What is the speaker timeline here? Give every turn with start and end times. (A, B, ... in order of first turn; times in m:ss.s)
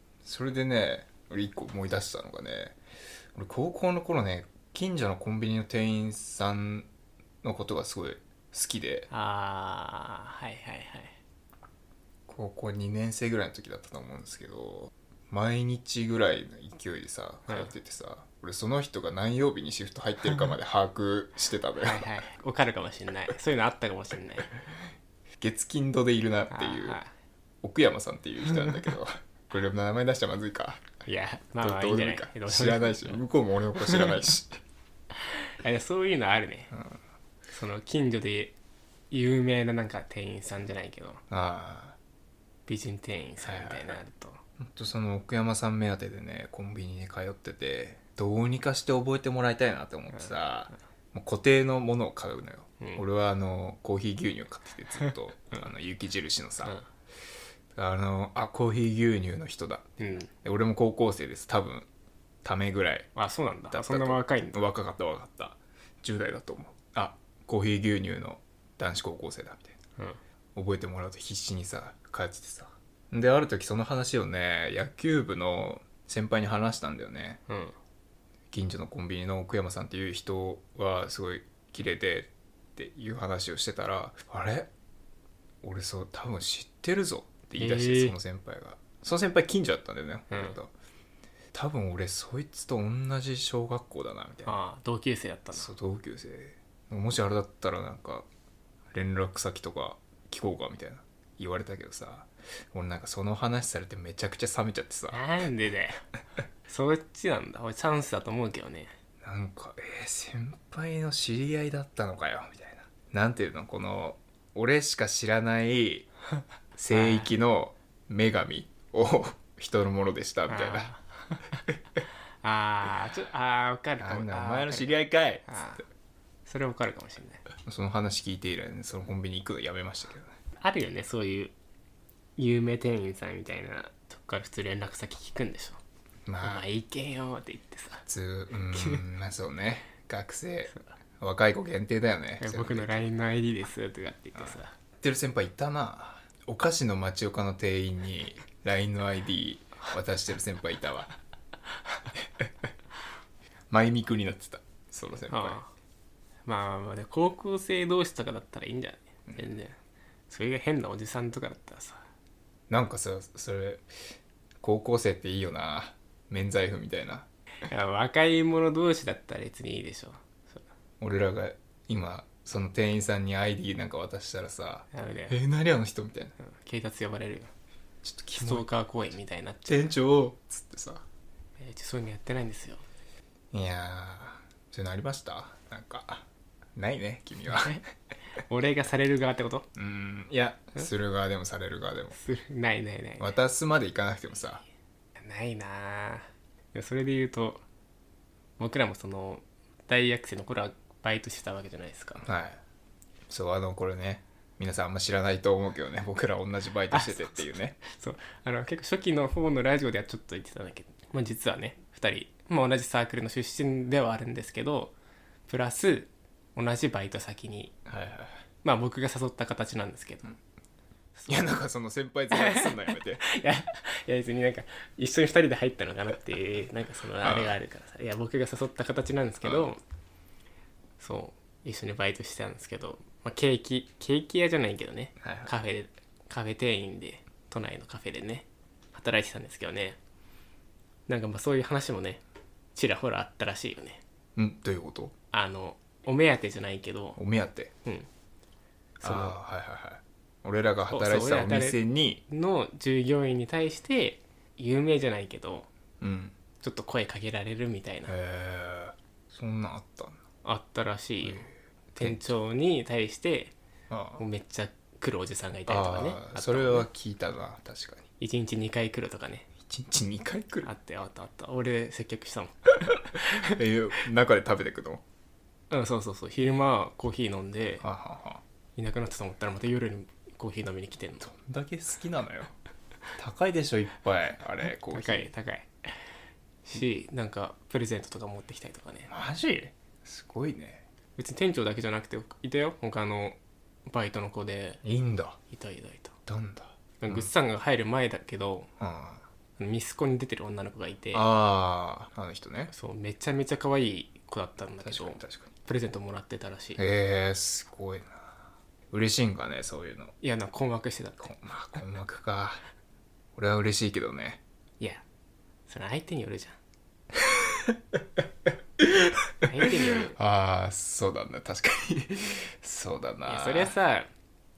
0:00.2-0:02.8 A
0:03.3-0:06.9 A
0:07.4-0:09.1 A
0:09.1-0:11.1 B
0:12.3-0:22.1 A
0:17.5-0:17.7 B
0:21.8-0:24.5 B
0:25.4-0:27.0 A
0:26.5-0:27.1 B
0:27.6-0:31.0 A
0:28.5-0:28.9 B
0:31.0-0:33.2 B
0:31.6-0:34.6 A
0:33.8-0:34.1 B
0:35.6-0:36.7 B
0:36.7-0:37.0 A
0:37.5-0:38.6 B
0:39.1-0:41.2 B
0:41.3-0:42.0 A
0:42.7-0:44.4 B
0:43.4-0:44.0 A
0:44.6-0:56.8 A
0:50.1-0:50.7 B
0:55.0-0:55.6 B
0:57.7-1:01.9 A
1:00.0-1:00.3 B
1:02.4-1:03.1 A
1:03.1-1:04.7 B
1:03.7-1:09.8 A
1:10.5-1:17.4 A
1:17.5-1:17.7 B
1:18.5-1:24.7 A
1:25.6-1:30.7 A
1:27.6-1:28.2 B
1:30.3-1:30.6 B
1:31.5-1:34.5 A
1:34.4-1:35.7 B
1:35.5-1:38.3 A
1:38.9-1:45.4 A
1:45.1-1:46.0 B
1:46.7-1:48.9 B
1:49.2-1:56.1 A
1:56.8-2:00.9 A
1:56.9-1:57.3 B
2:00.5-2:01.1 B
2:02.4-2:05.8 B
2:04.0-2:05.6 A
2:06.4-2:07.5 B
2:07.6-2:10.3 A
2:10.6-2:11.5 B
2:12.4-2:15.8 B
2:16.2-2:16.6 A
2:16.4-2:18.1 B
2:18.1-2:23.1 A
2:18.7-2:19.0 B
2:22.4-2:24.8 B
2:24.4-2:31.1 A
2:33.7-2:35.6 A
2:35.3-2:35.7 B
2:36.4-2:39.8 B
2:40.3-2:42.0 B
2:42.7-2:43.9 A
2:44.6-2:47.2 A
2:47.6-2:50.6 B
2:51.0-2:56.3 A
2:54.9-2:55.4 B
2:56.4-2:57.5 B
2:58.0-2:58.7 A
2:58.4-3:00.0 B
2:59.7-3:01.0 A
3:01.6-3:02.8 B
3:03.5-3:06.2 A
3:06.8-3:07.8 A
3:07.5-3:07.8 B
3:08.5-3:09.7 B
3:09.8-3:12.2 A
3:12.1-3:13.4 B
3:13.2-3:14.6 A
3:15.2-3:17.6 B
3:18.6-3:22.3 B
3:22.2-3:22.6 A
3:23.3-3:27.8 A
3:26.9-3:34.9 B
3:35.5-3:37.7 B
3:37.8-3:38.4 A
3:38.6-3:40.3 B
3:41.1-3:41.6 B
3:41.3-3:43.2 A
3:42.3-3:49.8 B
3:47.2-3:47.6 A
3:49.4-3:49.7 A
3:51.0-4:00.0 B
3:55.2-3:55.5 A
4:01.1-4:02.2 B
4:02.7-4:04.0 B
4:04.4-4:05.2 A
4:05.3-4:07.2 B
4:07.2-4:07.7 A
4:09.0-4:09.4 B
4:09.0-4:12.2 A
4:10.9-4:15.7 B
4:16.0-4:16.4 A
4:16.5-4:18.1 B
4:18.0-4:20.2 A
4:20.4-4:23.5 B
4:21.2-4:22.3 A
4:23.9-4:24.2 A
4:24.2-4:26.9 B
4:25.7-4:28.1 A
4:28.2-4:29.6 B
4:29.6-4:30.7 A
4:30.6-4:33.6 B
4:33.4-4:35.0 A
4:35.7-4:37.8 B
4:37.8-4:38.4 A
4:38.8-4:41.3 B
4:41.2-4:42.5 A
4:43.2-4:45.3 A
4:44.6-4:45.7 B
4:46.6-4:49.1 B
4:49.1-4:50.8 A
4:51.2-4:54.8 B
4:54.8-4:55.4 A
4:55.4-4:56.2 B
4:56.3-4:57.3 A
4:57.0-4:58.7 B
4:58.8-4:59.2 A
4:59.6-5:01.3 B
5:01.1-5:02.7 A
5:02.7-5:06.8 B
5:04.8-5:05.5 A
5:06.8-5:08.3 A
5:08.9-5:10.1 A
5:10.2-5:11.3 B
5:11.2-5:12.6 A
5:13.3-5:14.4 A
5:15.7-5:16.6 B
5:17.4-5:17.8 A
5:18.8-5:23.7 A
5:19.4-5:20.2 B
5:23.2-5:24.1 B